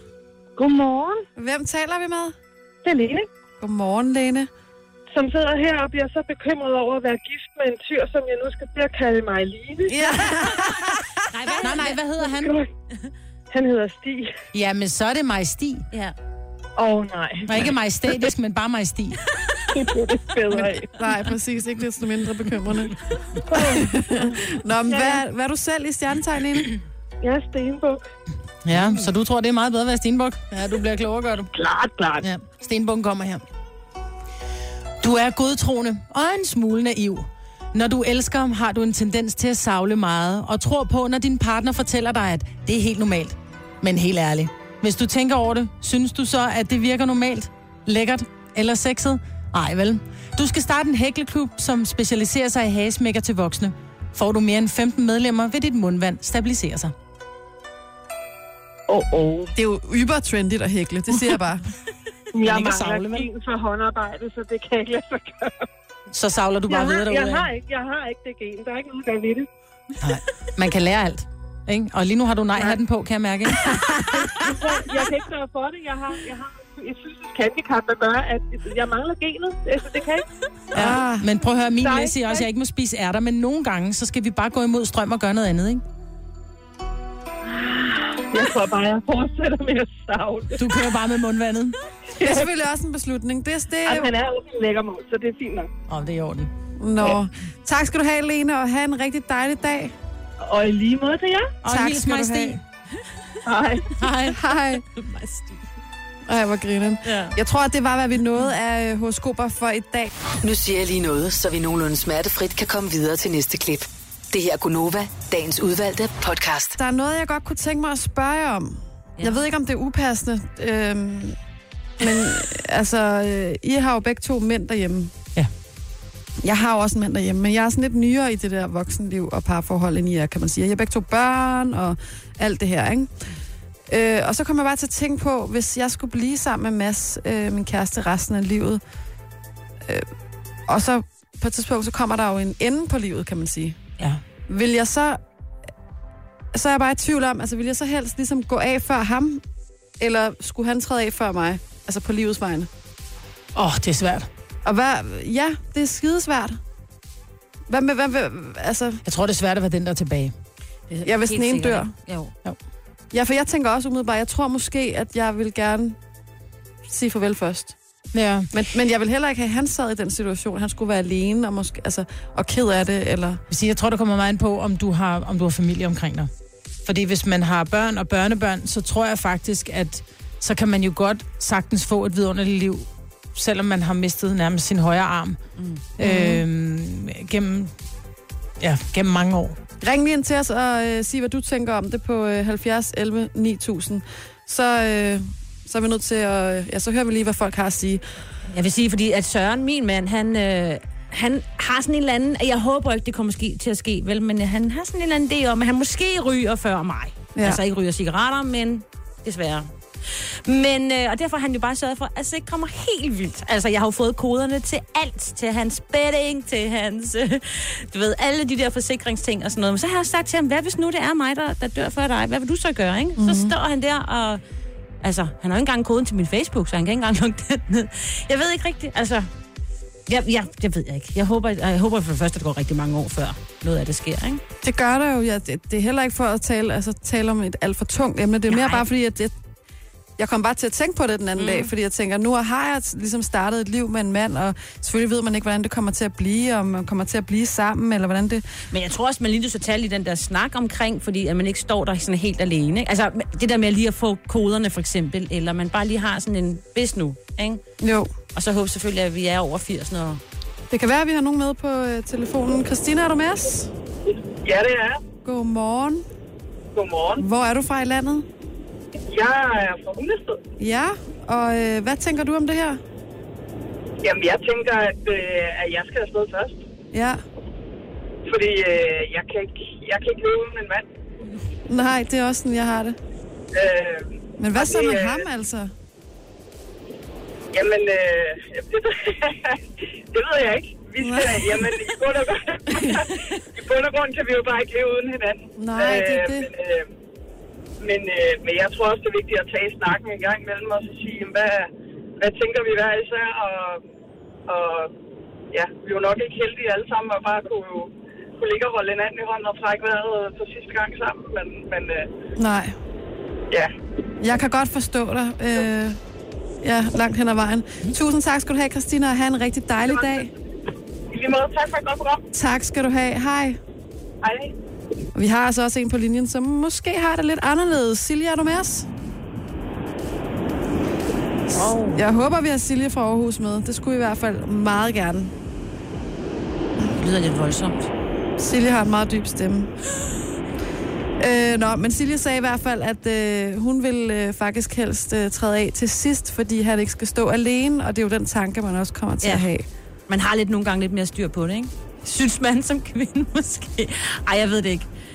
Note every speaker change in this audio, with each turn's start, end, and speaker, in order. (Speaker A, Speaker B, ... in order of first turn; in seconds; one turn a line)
Speaker A: 0.6-1.3
Speaker B: 1.4-2.3
Speaker A: 2.8-3.3
Speaker B: 3.6-4.5
Speaker A: 5.1-10.2
Speaker B: 9.9-11.1
Speaker C: 11.3-12.0
Speaker D: 11.6-12.6
Speaker A: 12.3-12.7
Speaker A: 13.5-14.3
Speaker D: 14.5-15.8
Speaker A: 16.8-17.6
Speaker D: 17.4-19.2
Speaker A: 19.7-20.9
Speaker B: 20.5-23.0
Speaker A: 23.5-23.9
Speaker B: 23.5-26.7
Speaker A: 24.9-25.2
Speaker A: 27.2-28.0
Speaker D: 28.6-31.5
Speaker A: 31.5-32.2
Speaker D: 32.2-33.4
Speaker D: 35.0-56.9
Speaker A: 58.9-59.5
Speaker B: 59.5-61.6
Speaker A: 62.3-65.7
Speaker D: 62.4-63.3
Speaker D: 66.1-67.5
Speaker A: 66.7-69.5
Speaker D: 70.0-74.5
Speaker A: 74.3-80.2
Speaker B: 80.7-81.3
Speaker D: 80.7-85.8
Speaker A: 81.8-82.5
Speaker A: 87.5-90.9
Speaker D: 90.6-91.8
Speaker A: 92.2-92.5
Speaker B: 92.2-94.1
Speaker A: 93.8-95.7
Speaker D: 95.9-96.5
Speaker B: 96.8-99.9
Speaker A: 100.4-101.6
Speaker D: 101.6-102.6
Speaker B: 101.7-102.6
Speaker A: 103.4-103.9
Speaker D: 104.0-104.4
Speaker B: 104.2-104.8
Speaker C: 105.0-105.6
Speaker B: 106.2-110.1
Speaker C: 107.1-107.3
Speaker E: 110.4-116.7
Speaker B: 116.8-121.4
Speaker B: 122.0-125.1
Speaker B: 126.4-133.1
Speaker B: 133.9-138.8
Speaker B: 140.7-143.8
Speaker B: 144.5-145.2
Speaker B: 146.5-149.4
Speaker B: 150.0-152.7
Speaker D: 153.5-154.3
Speaker B: 154.6-156.6
Speaker B: 157.7-159.0
Speaker D: 159.0-160.3
Speaker C: 160.9-162.3
Speaker B: 161.0-161.9
Speaker B: 163.1-166.0
Speaker B: 166.8-167.8
Speaker D: 168.1-168.5
Speaker B: 168.5-173.4
Speaker D: 173.5-176.3
Speaker D: 176.8-185.4
Speaker C: 185.6-185.8
Speaker D: 186.0-187.7
Speaker B: 186.0-186.4
Speaker D: 188.6-189.6
Speaker B: 189.8-198.0
Speaker C: 198.5-224.4
Speaker B: 223.2-223.5
Speaker C: 225.0-229.3
Speaker C: 230.1-234.4
Speaker B: 234.6-239.3
Speaker C: 238.5-238.9
Speaker B: 240.2-248.4
Speaker C: 241.3-241.7
Speaker C: 248.7-257.6
Speaker B: 257.8-258.1
Speaker C: 258.3-260.2
Speaker B: 260.7-263.7
Speaker A: 264.4-265.0
Speaker B: 265.2-266.0
Speaker A: 266.7-267.2
Speaker B: 267.2-268.3
Speaker A: 269.1-270.4
Speaker B: 270.6-272.8
Speaker A: 274.0-276.6
Speaker B: 276.9-277.2
Speaker A: 278.2-280.9
Speaker B: 281.7-283.0
Speaker A: 283.5-285.2
Speaker B: 284.4-285.7
Speaker A: 287.5-296.9
Speaker B: 291.0-291.7
Speaker B: 292.7-293.0
Speaker B: 295.6-296.5
Speaker A: 297.8-303.8
Speaker A: 304.5-304.9
Speaker A: 305.5-312.1
Speaker B: 312.4-312.8
Speaker B: 314.2-316.0
Speaker B: 316.6-320.3
Speaker A: 319.9-320.3
Speaker A: 321.1-322.2
Speaker B: 322.3-323.6
Speaker A: 324.2-324.5
Speaker B: 325.1-328.9
Speaker C: 331.5-332.0
Speaker B: 331.9-335.3
Speaker C: 336.9-337.9
Speaker B: 338.4-339.7
Speaker B: 341.2-349.6
Speaker C: 349.2-349.5
Speaker C: 350.1-354.9